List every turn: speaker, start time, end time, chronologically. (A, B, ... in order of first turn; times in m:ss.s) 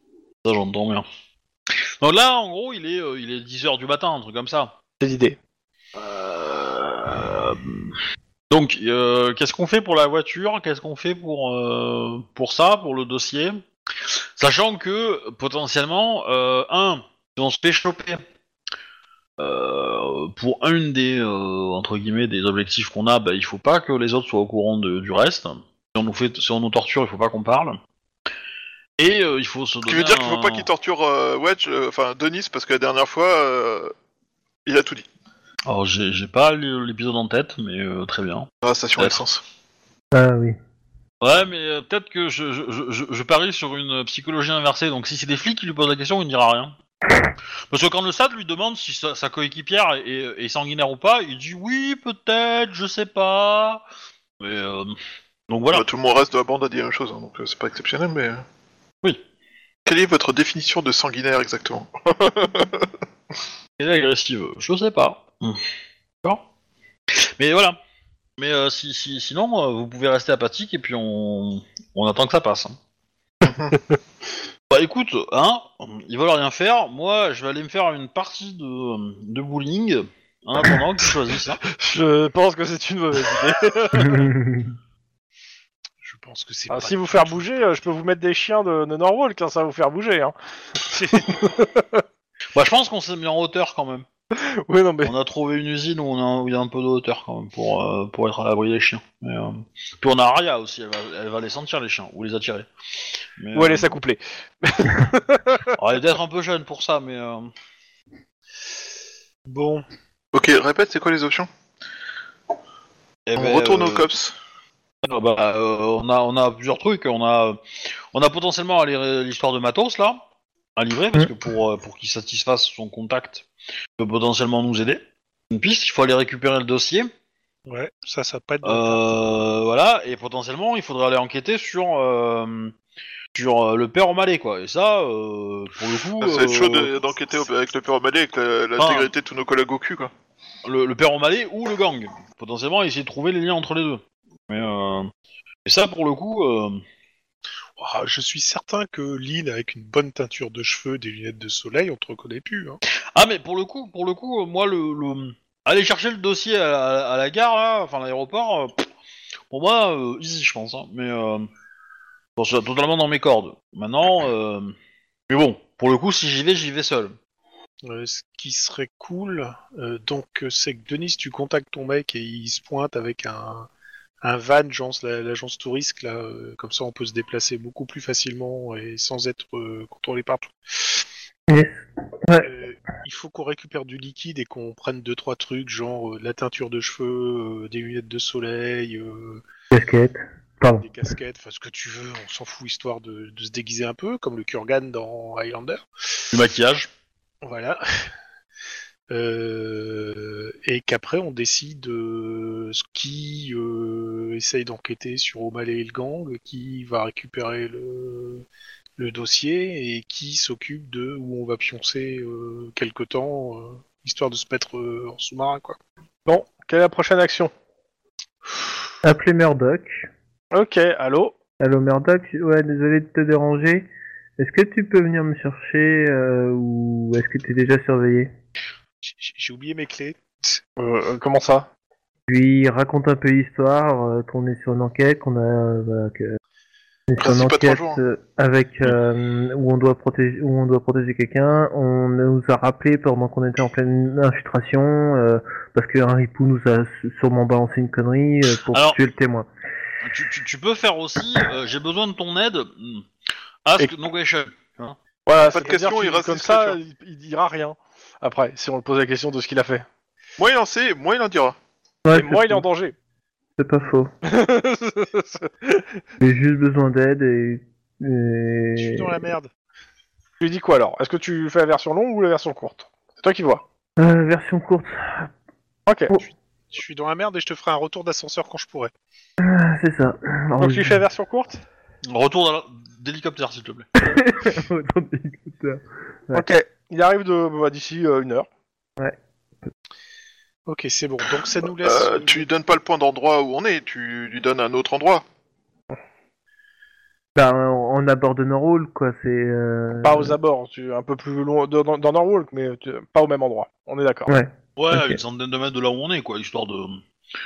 0:00.4-0:01.1 A
0:01.7-0:04.8 A
0:05.0-0:05.4 B
0:05.9-0:08.0 A
0:08.5-0:13.6 A
0:14.4-0:18.2 A
0:19.4-0:27.8 A
0:29.0-0:30.7 A
0:29.8-0:33.9 C
0:34.6-0:35.1 C
0:35.6-0:39.2 A
0:38.6-0:39.4 C
0:40.1-0:40.6 D
0:41.2-0:46.8 A
0:47.7-0:53.8 A
0:54.4-0:54.9 A
0:55.5-0:55.8 A
0:55.7-0:58.4 C
0:59.8-1:02.9 C
1:03.8-1:05.6 A
1:07.1-1:07.8 A
1:08.4-1:12.8 A
1:13.4-1:13.8 C
1:14.7-1:21.6 A
1:21.7-1:24.3 B
1:24.0-1:24.6 D
1:26.0-1:27.7 E
1:26.7-1:30.3 B
1:30.9-1:31.3 E
1:30.9-1:32.0 B
1:32.5-1:34.0 A
1:34.3-1:35.1 B
1:35.0-1:42.7 A
1:43.4-1:43.9 A
1:43.5-1:45.7 B
1:45.8-1:47.5 A
1:49.5-1:49.8 E
1:50.3-1:51.5 C
1:53.2-1:54.1 A
1:53.4-1:54.4 C
1:55.0-1:57.6 A
1:58.1-2:00.2 A
2:00.8-2:07.1 A
2:07.6-2:09.0 E
2:08.6-2:12.7 A
2:13.3-2:16.9 A
2:16.2-2:20.1 C
2:18.8-2:19.1 A
2:20.6-2:25.1 A
2:25.6-2:26.8 A
2:27.8-2:32.8 E
2:33.1-2:38.8 A
2:39.5-2:41.5 A
2:42.4-2:44.7 A
2:45.3-2:47.2 A
2:47.8-2:53.7 E
2:54.2-3:01.0 E
3:01.5-3:02.5 D
3:02.4-3:09.4 E
3:09.7-3:10.9 D
3:10.8-3:16.2 E
3:16.3-3:16.9 A
3:17.4-3:18.1 E
3:19.1-3:28.4 E
3:29.0-3:35.8 E
3:36.2-3:37.5 B
3:39.0-3:40.1 D
3:40.5-3:41.3 B
3:41.6-3:48.3 D
3:49.0-3:50.6 E
3:50.8-3:51.7 B
3:52.3-3:56.4 D
3:57.1-4:09.5 D
3:57.2-3:58.0 C
4:08.7-4:09.0 A
4:10.0-4:13.1 A
4:13.6-4:15.0 A
4:15.2-4:19.8 B
4:15.4-4:16.8 C
4:20.4-4:21.6 C
4:22.0-4:22.6 D
4:22.1-4:22.9 B
4:23.6-4:24.1 D
4:24.2-4:25.9 B
4:26.2-4:29.1 D
4:28.8-4:29.5 E
4:30.4-4:33.6 B
4:34.0-4:35.3 D
4:35.8-4:36.1 B
4:36.7-4:38.9 E
4:39.4-4:41.0 D
4:40.6-4:41.6 B
4:42.0-4:43.9 A
4:44.0-4:46.5 D
4:46.3-4:48.5 B
4:50.7-4:52.5 E
4:51.8-4:55.2 C
4:57.3-5:00.3 D
5:00.0-5:04.3 B
5:04.3-5:05.2 D
5:04.8-5:07.0 A